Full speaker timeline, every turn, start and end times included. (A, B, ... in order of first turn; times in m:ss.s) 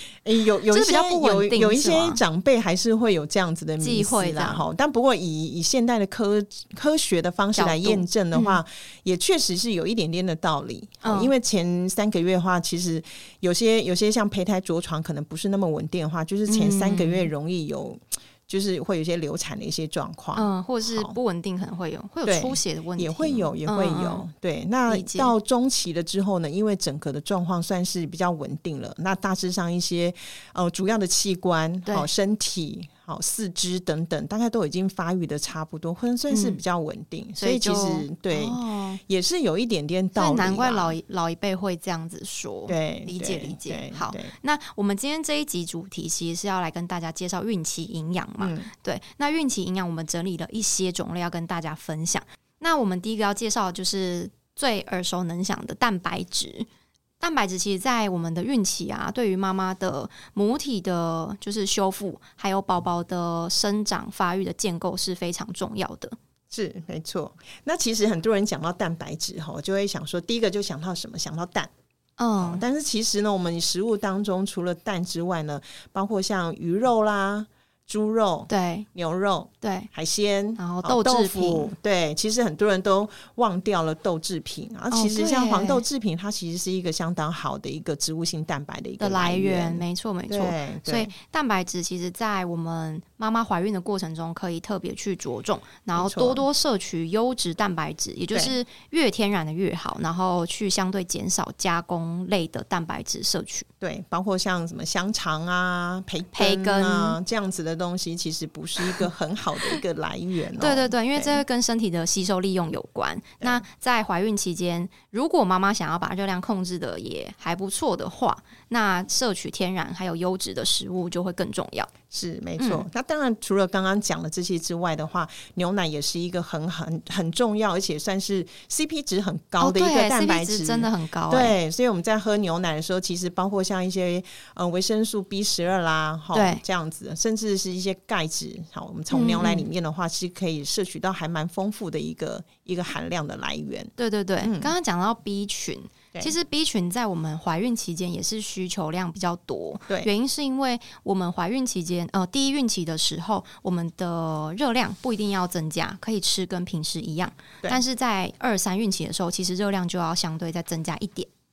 0:00.2-0:21.2 A
0:00.7-0:02.2 B
0:03.8-0:04.6 B
0:07.5-0:08.6 B
0:11.0-0:11.3 B
0:16.5-0:17.3 B
0:20.3-0:24.2 B
0:22.2-0:41.0 A
0:24.9-0:25.3 B
0:36.3-0:36.6 B
0:37.4-0:39.0 B
0:40.2-0:56.7 B
0:42.7-0:44.3 A
0:48.4-0:48.7 A
0:57.2-1:06.2 B
1:06.5-1:11.7 A
1:12.2-1:12.6 B
1:12.4-1:31.1 A
1:18.5-1:18.9 B
1:19.6-1:19.9 B
1:20.6-1:21.7 B
1:24.9-1:25.8 B
1:29.0-1:43.7 B
1:35.9-1:36.4 A
1:43.8-1:51.4 A
1:46.3-1:47.2 B
1:50.6-2:01.9 B
2:02.1-2:23.9 A
2:02.6-2:02.8 B
2:09.6-2:11.6 B
2:16.3-2:16.6 B
2:19.1-2:19.7 B
2:24.0-2:41.3 B
2:24.4-2:24.7 A